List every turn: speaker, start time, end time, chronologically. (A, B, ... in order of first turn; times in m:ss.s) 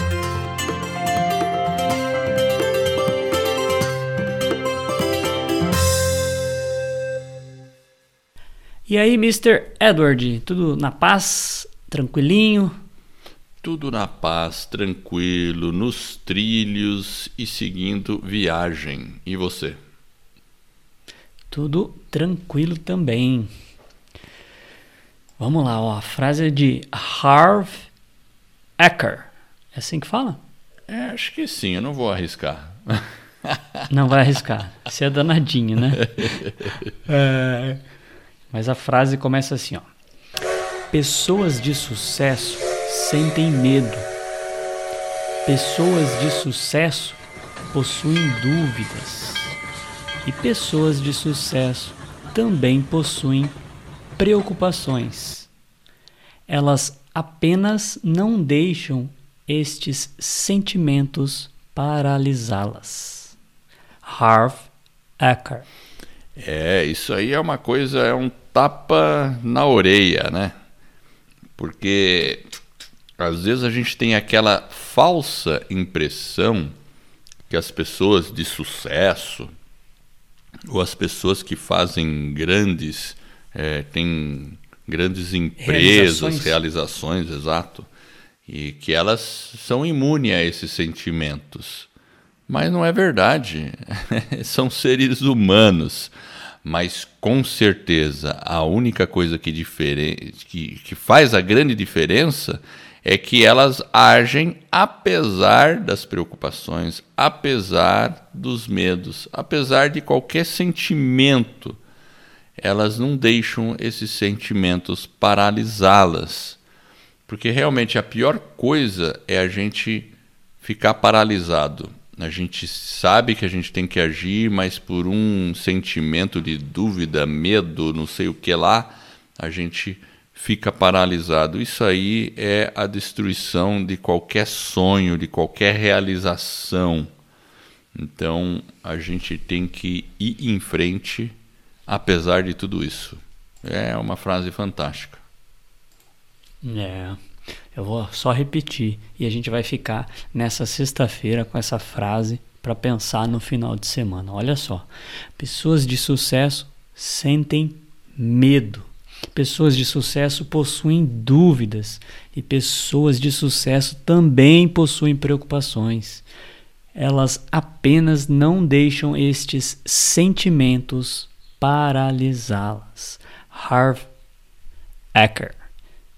0:08.9-0:12.8 A
0:13.6-0:19.8 B
0:21.5-0:23.5 A
0:25.4-0:27.9 A
0:28.8-0:30.4 A
0:30.9-0:33.8 B
0:33.9-0:36.3 A
0:37.0-0:37.8 A
0:38.5-0:39.9 A
0:40.9-0:44.1 A
0:45.4-0:49.6 A
0:50.2-0:53.6 A
0:54.2-0:55.5 A
0:56.5-1:03.4 A
1:04.0-1:05.7 A
1:06.4-1:10.5 B
1:11.6-1:12.4 B
1:13.2-1:16.7 B
1:17.5-1:19.5 B
1:20.7-1:27.9 B
1:25.6-1:26.6 A
1:28.5-1:31.9 B
1:32.5-1:36.1 B
1:36.6-1:51.8 B
1:52.6-1:56.6 B
1:57.3-2:17.1 B
2:17.9-2:21.4 B
2:21.9-2:25.2 B
2:26.6-2:27.2 A
2:27.7-2:46.2 A
2:46.9-2:54.1 A
2:55.2-2:55.6 A